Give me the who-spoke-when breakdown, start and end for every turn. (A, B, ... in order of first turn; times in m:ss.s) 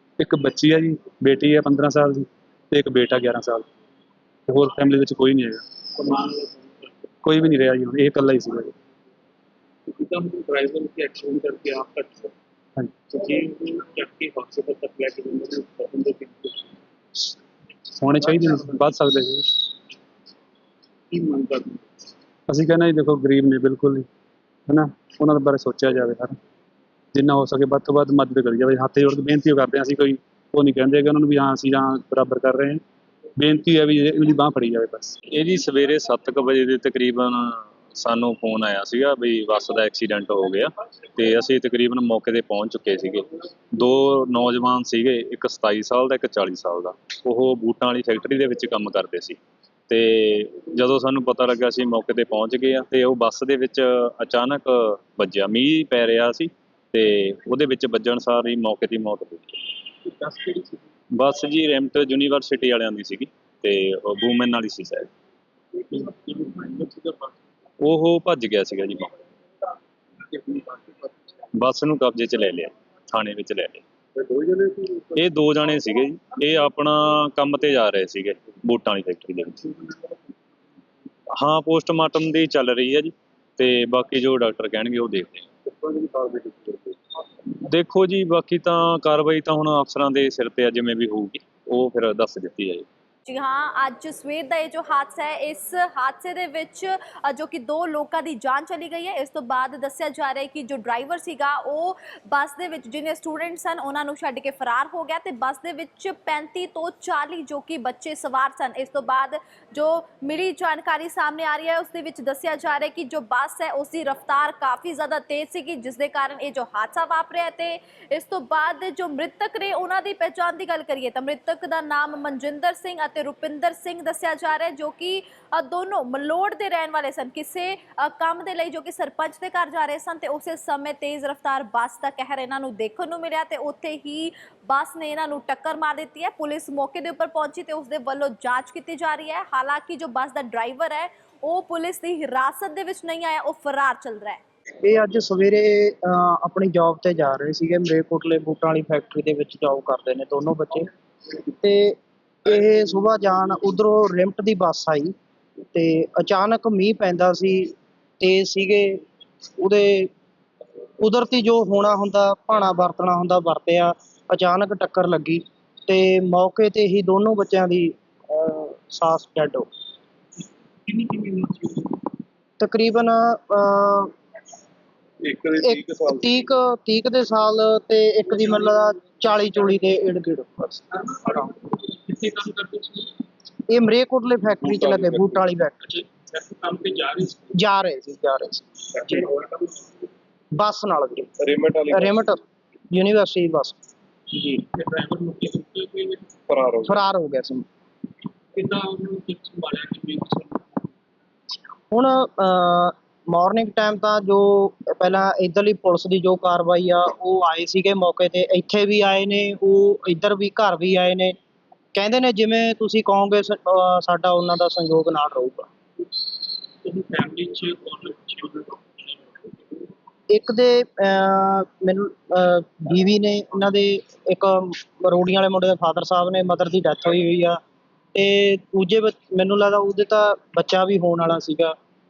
0:00.2-0:03.7 A
0:04.5-0:05.6 A
0:05.9-0:06.8 B
0:07.2-0:08.7 A
0:09.9-0:12.3 B
0:13.1-0:16.7 B
0:18.0-0:19.6 A
0:21.1-0:21.8 B
0:22.5-0:24.1 A
0:24.7-0:26.4 A
0:27.1-0:32.8 A
0:33.4-0:35.2 A
0:35.3-0:59.7 C
1:00.1-1:00.8 B
1:01.1-1:05.1 C
1:05.8-1:07.3 B
1:07.8-1:09.1 C
1:10.2-1:11.1 B
1:11.5-1:13.8 C
1:14.2-1:15.0 B
1:15.1-1:19.6 C
1:21.3-1:25.5 C
1:25.8-1:26.7 B
1:27.6-1:32.9 C
1:33.3-2:24.4 D
2:24.8-2:30.9 E
2:31.4-2:35.1 E
2:35.7-2:39.0 E
2:39.6-2:40.1 E
2:41.0-2:49.7 E
2:50.8-2:52.0 B
2:52.6-2:54.1 E
2:55.2-2:56.5 F
2:55.6-3:00.8 E
3:00.9-3:03.2 B
3:03.7-3:05.7 E
3:04.6-3:05.4 F
3:05.8-3:07.6 B
3:07.5-3:08.7 E
3:09.0-3:09.8 B
3:10.5-3:11.3 E
3:11.4-3:12.4 F
3:11.9-3:13.8 E
3:14.3-3:16.3 B
3:16.5-3:17.0 F
3:16.8-3:17.6 E
3:18.5-3:20.7 B
3:21.9-3:31.4 E
3:31.9-3:35.7 E
3:36.8-3:39.8 B
3:40.3-3:47.6 E
3:48.1-3:51.7 E